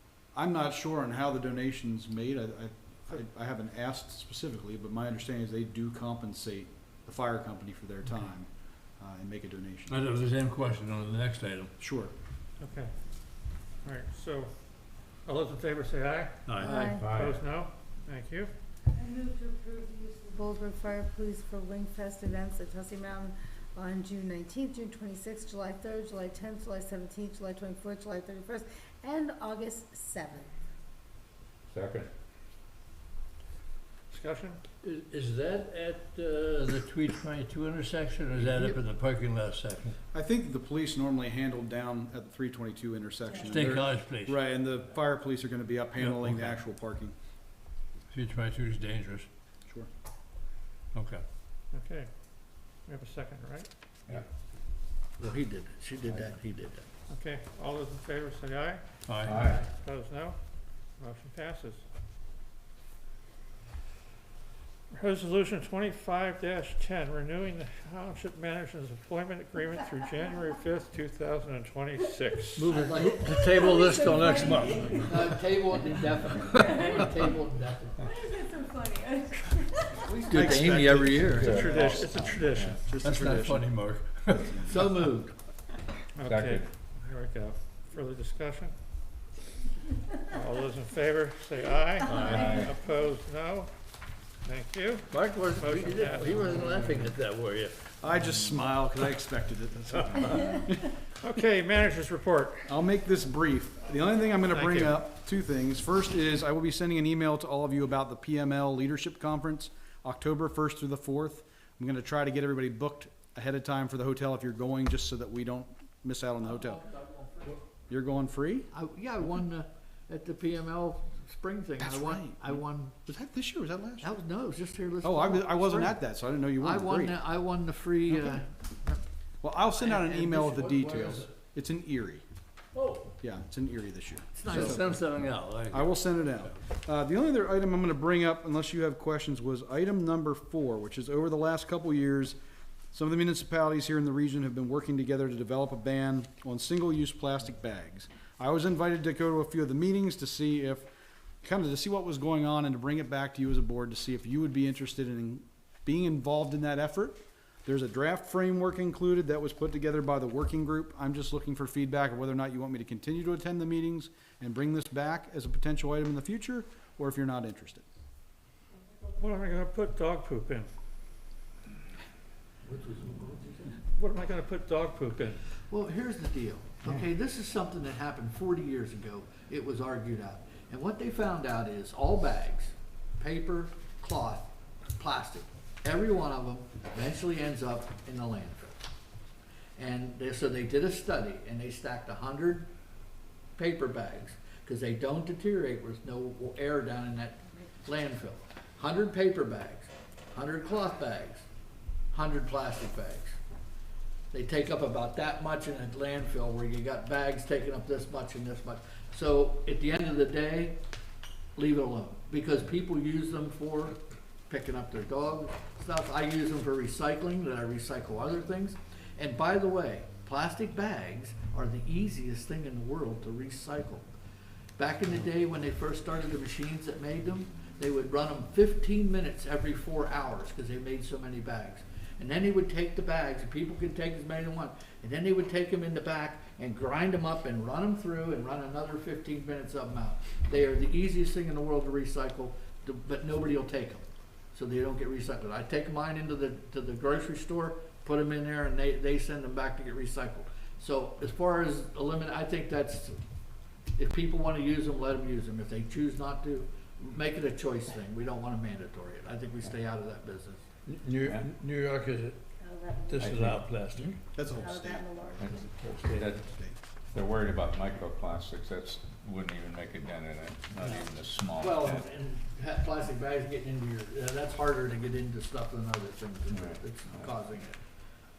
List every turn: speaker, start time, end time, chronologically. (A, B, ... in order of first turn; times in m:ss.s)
0:00.3-0:08.5 A
0:09.0-0:10.0 A
0:09.9-0:11.7 B
0:11.8-0:12.1 A
0:12.6-0:14.5 C
0:15.2-0:18.5 C
0:16.4-0:17.4 B
0:16.6-0:17.1 D
0:19.0-0:30.5 D
0:31.7-0:32.1 E
0:34.1-0:34.6 C
0:34.8-0:40.0 B
0:40.1-0:47.1 A
0:43.4-0:44.4 B
0:46.0-0:46.6 B
0:48.1-0:49.3 B
0:50.9-0:51.2 B
0:51.7-0:52.1 C
0:52.8-0:53.7 C
0:55.2-0:56.8 F
0:57.1-0:58.8 C
0:59.1-0:59.4 B
0:59.2-0:59.7 E
0:59.7-1:00.4 C
1:01.0-1:01.8 C
1:04.9-1:13.0 C
1:12.6-1:15.3 B
1:12.7-1:13.3 F
1:13.5-1:15.0 D
1:15.0-1:18.1 F
1:16.5-1:17.0 D
1:18.3-1:19.8 D
1:19.9-1:21.7 F
1:20.1-1:23.7 A
1:20.3-1:21.4 B
1:21.4-1:22.8 E
1:21.7-1:22.8 C
1:23.0-1:25.0 B
1:24.3-1:24.9 A
1:24.6-1:25.3 F
1:26.2-1:28.7 C
1:26.2-1:26.7 E
1:30.3-1:33.7 C
1:32.0-1:32.8 E
1:34.4-1:36.8 C
1:35.1-1:37.8 B
1:38.0-1:40.9 A
1:41.2-1:42.7 C
1:42.7-1:56.8 A
1:44.5-1:45.0 C
1:56.8-1:57.0 F
1:57.9-1:58.7 A
1:58.7-2:03.0 F
2:01.8-2:04.1 A
2:04.0-2:06.0 F
2:05.0-2:07.2 A
2:06.6-2:09.0 F
2:08.1-2:08.4 A
2:09.4-2:12.2 A
2:09.8-2:10.3 F
2:10.0-2:11.3 B
2:12.7-2:13.1 B
2:13.2-2:15.0 A
2:14.4-2:15.0 F
2:14.4-2:16.0 B
2:15.7-2:22.4 A
2:22.9-2:30.9 A
2:31.4-2:47.8 A
2:49.2-2:50.7 C
2:52.7-2:53.8 F
2:53.9-2:55.4 C
2:55.7-3:08.8 F
3:09.8-3:12.7 F
3:13.6-3:21.4 F
3:22.1-3:23.4 F
3:24.3-3:30.8 F
3:31.6-3:34.0 F
3:34.5-3:44.1 F
3:44.8-4:13.2 F
4:14.0-4:20.6 F
4:20.8-4:22.4 B
4:21.2-4:21.5 E
4:22.6-4:23.3 D
4:23.1-4:24.2 B
4:23.2-4:23.6 E
4:24.2-4:26.8 A
4:24.5-4:25.6 D
4:25.4-4:26.5 E
4:25.9-4:26.2 B
4:27.1-4:32.1 E
4:31.6-4:37.8 F
4:36.5-4:37.3 E